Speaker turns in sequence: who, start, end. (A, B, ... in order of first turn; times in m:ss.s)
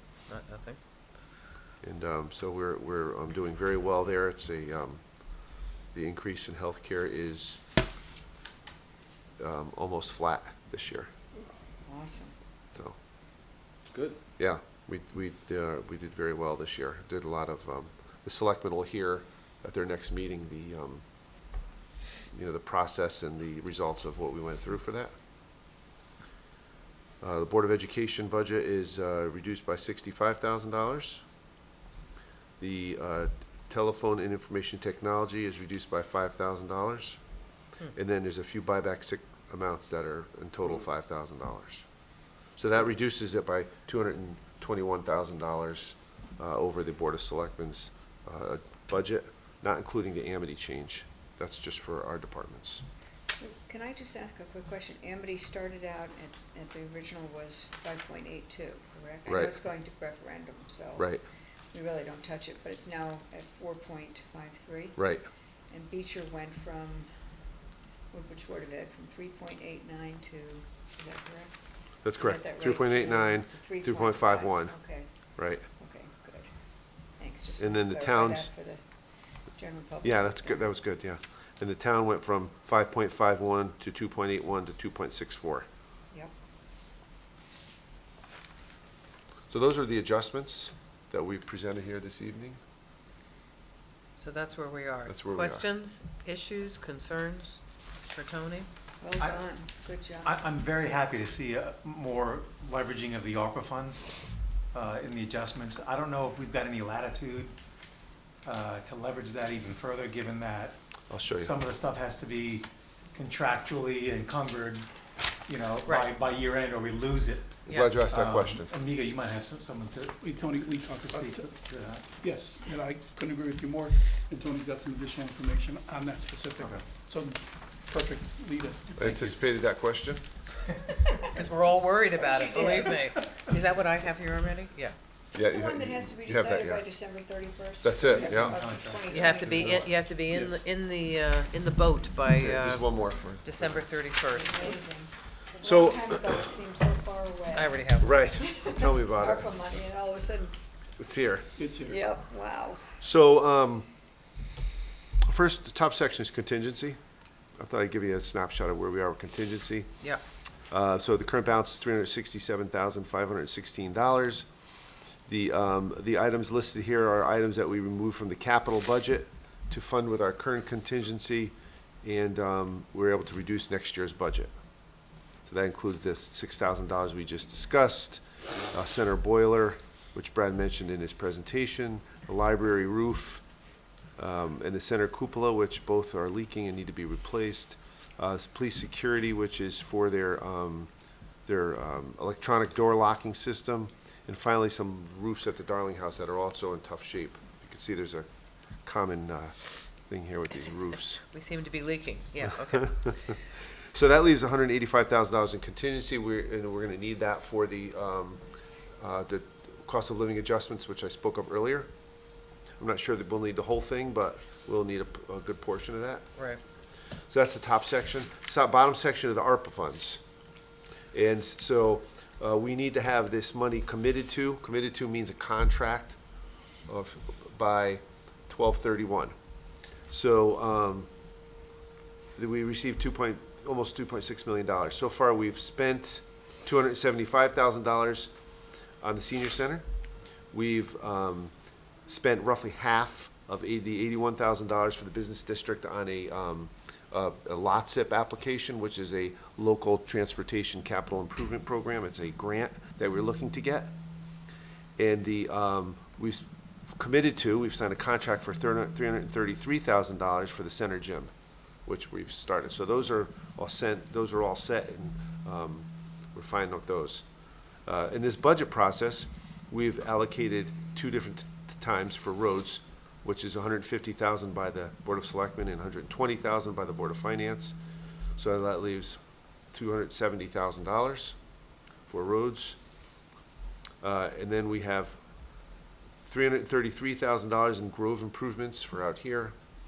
0:00.3-0:00.8 A
0:01.8-0:07.6 B
0:09.4-0:11.1 B
0:11.8-0:12.3 C
0:12.7-0:13.0 B
0:14.4-0:21.0 B
0:22.3-0:25.1 B
0:27.2-0:31.2 B
0:32.6-0:37.2 B
0:37.9-0:41.9 B
0:42.6-0:52.8 B
0:53.3-1:01.1 C
0:59.3-0:59.6 B
1:01.0-1:01.2 B
1:01.7-1:05.0 C
1:05.0-1:05.2 B
1:05.7-1:07.1 C
1:08.1-1:11.6 C
1:12.0-1:14.8 B
1:12.1-1:15.1 C
1:15.4-1:15.6 B
1:15.7-1:16.5 C
1:17.2-1:18.8 C
1:17.6-1:18.5 B
1:19.5-1:20.7 C
1:20.0-1:25.7 B
1:29.5-1:32.6 B
1:34.2-1:38.7 A
1:35.1-1:35.6 B
1:39.0-1:40.4 C
1:39.2-1:39.4 D
1:40.2-1:44.0 D
1:44.7-1:47.5 D
1:48.4-1:50.8 D
1:51.1-1:51.5 B
1:51.4-1:54.9 D
1:55.5-2:02.0 D
1:55.8-1:56.1 A
1:57.7-1:57.9 A
1:57.7-1:58.7 B
2:00.2-2:01.5 E
2:02.2-2:09.4 E
2:09.0-2:10.2 B
2:11.2-2:15.0 A
2:12.2-2:13.0 C
2:15.3-2:19.9 C
2:15.3-2:16.9 B
2:17.8-2:18.6 B
2:18.1-2:19.2 D
2:19.1-2:24.8 A
2:19.4-2:19.9 B
2:22.4-2:23.8 B
2:24.3-2:30.5 C
2:25.6-2:26.4 B
2:27.5-2:28.2 A
2:28.0-2:29.5 B
2:31.0-2:31.5 B
2:31.6-2:32.0 E
2:31.8-2:32.8 C
2:33.0-2:33.9 B
2:35.3-2:37.0 B
2:37.6-2:39.9 B
2:40.7-2:44.5 B
2:45.3-2:54.5 B
2:55.4-3:03.4 B
3:04.2-3:10.9 B
3:11.4-3:18.3 B
3:18.8-3:21.2 B
3:21.3-3:23.3 A
3:23.0-3:23.3 B
3:23.9-3:28.4 B
3:29.0-3:31.9 B
3:32.8-3:36.2 B
3:37.2-3:40.2 B
3:41.1-3:46.2 B
3:46.9-3:49.3 B
3:50.1-3:51.1 B
3:52.4-3:58.3 B
3:59.0-3:59.8 B
4:00.5-4:01.5 B
4:02.0-4:13.9 B
4:15.0-4:21.3 B
4:21.8-4:27.2 B
4:27.8-4:37.8 B
4:38.4-4:41.4 B
4:42.0-4:42.8 B
4:44.0-4:45.6 B
4:46.2-4:49.6 B